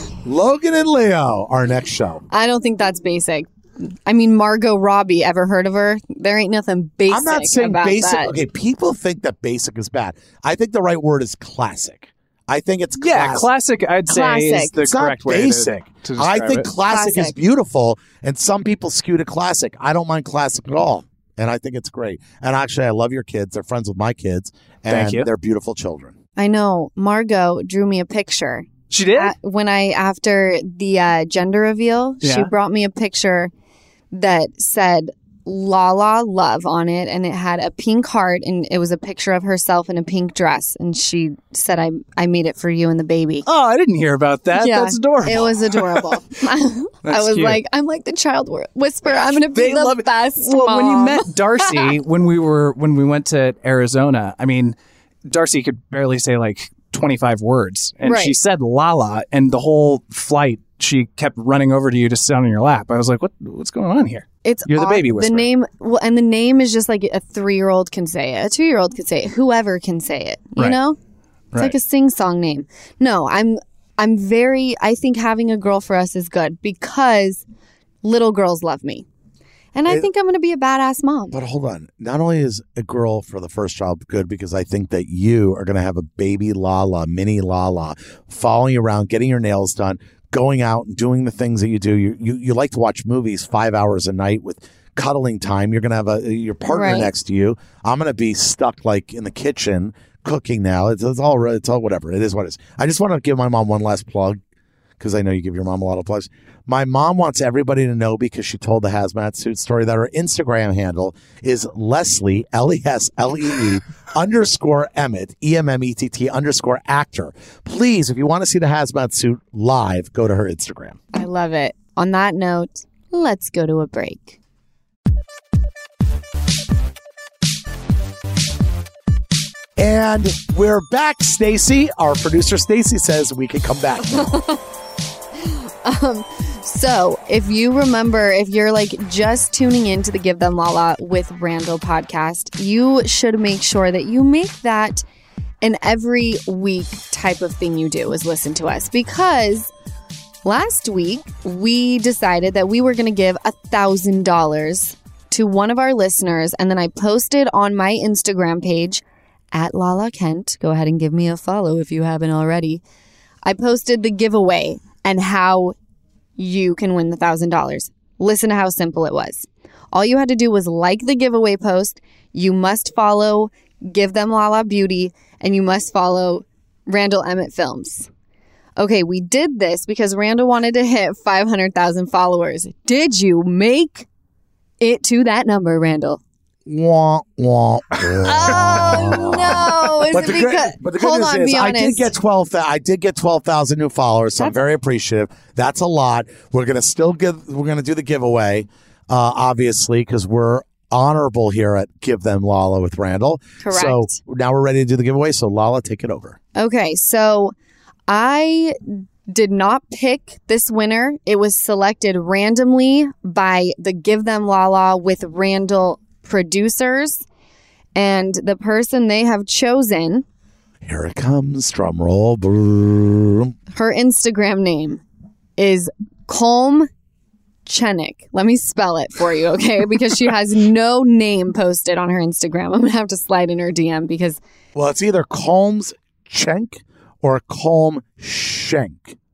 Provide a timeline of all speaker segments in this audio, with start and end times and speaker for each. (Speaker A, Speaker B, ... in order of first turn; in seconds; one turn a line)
Speaker A: 0.2-2.2
Speaker B: 2.3-8.3
Speaker A: 7.1-13.5
Speaker C: 13.0-16.7
Speaker B: 14.1-14.8
Speaker A: 14.8-26.1
Speaker B: 16.9-17.3
Speaker C: 24.9-25.3
Speaker B: 26.4-33.5
Speaker C: 28.9-29.3
Speaker C: 32.2-32.5
Speaker B: 34.1-43.5
Speaker C: 43.5-46.2
Speaker B: 44.5-51.9
Speaker C: 47.0-47.6
Speaker C: 49.3-65.5
Speaker B: 58.0-58.3
Speaker B: 64.4-71.0
Speaker B: 71.5-77.4
Speaker B: 78.0-79.0
Speaker B: 79.7-81.4
Speaker A: 81.3-104.4
Speaker B: 96.7-97.1
Speaker A: 105.0-121.0
Speaker B: 121.1-124.4
Speaker A: 129.8-134.4
Speaker B: 134.1-134.6
Speaker B: 135.4-145.0
Speaker B: 145.6-149.7
Speaker B: 150.4-162.8
Speaker B: 163.4-165.8
Speaker B: 166.4-178.1
Speaker B: 178.8-184.1
Speaker B: 184.8-186.2
Speaker A: 186.7-206.4
Speaker B: 188.2-192.1
Speaker B: 203.6-204.2
Speaker B: 206.6-207.5
Speaker B: 208.1-217.2
Speaker B: 217.9-220.2
Speaker A: 220.8-223.5
Speaker B: 223.7-225.0
Speaker B: 225.6-226.9
Speaker B: 227.7-234.4
Speaker A: 234.7-239.2